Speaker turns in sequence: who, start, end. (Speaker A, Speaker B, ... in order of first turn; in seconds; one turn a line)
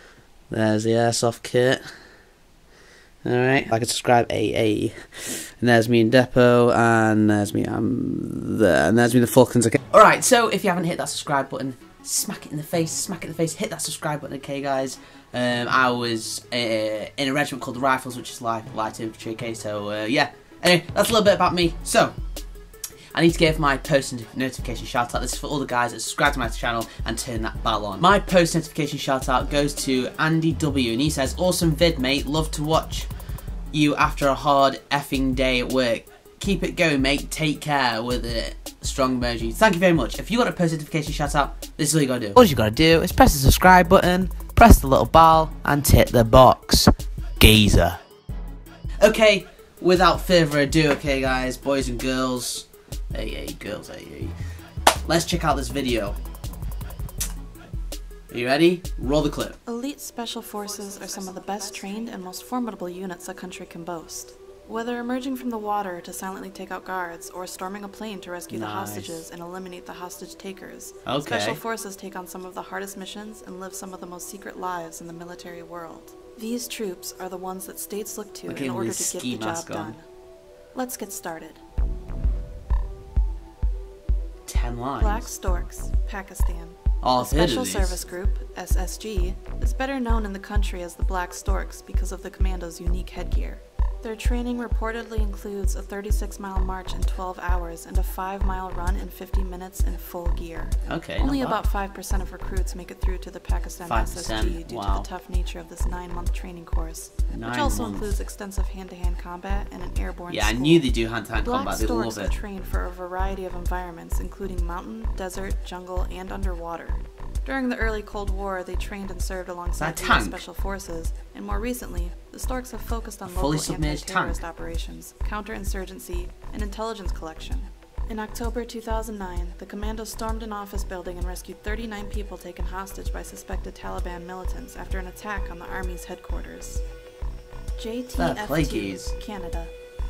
Speaker A: 0.5-1.9
Speaker A: 3.2-22.1
Speaker A: 23.1-33.1
Speaker A: 33.7-48.0
Speaker A: 49.0-54.3
Speaker A: 55.0-56.2
Speaker A: 58.3-59.6
Speaker B: 59.6-80.0
Speaker A: 68.5-69.2
Speaker A: 71.0-71.6
Speaker A: 78.5-80.0
Speaker B: 80.7-81.6
Speaker A: 84.5-85.3
Speaker B: 85.0-136.8
Speaker A: 87.0-88.0
Speaker A: 100.9-101.6
Speaker A: 103.8-105.1
Speaker A: 107.3-108.1
Speaker A: 110.3-112.3
Speaker A: 119.8-120.4
Speaker A: 123.2-124.4
Speaker B: 137.8-139.7
Speaker A: 138.2-139.1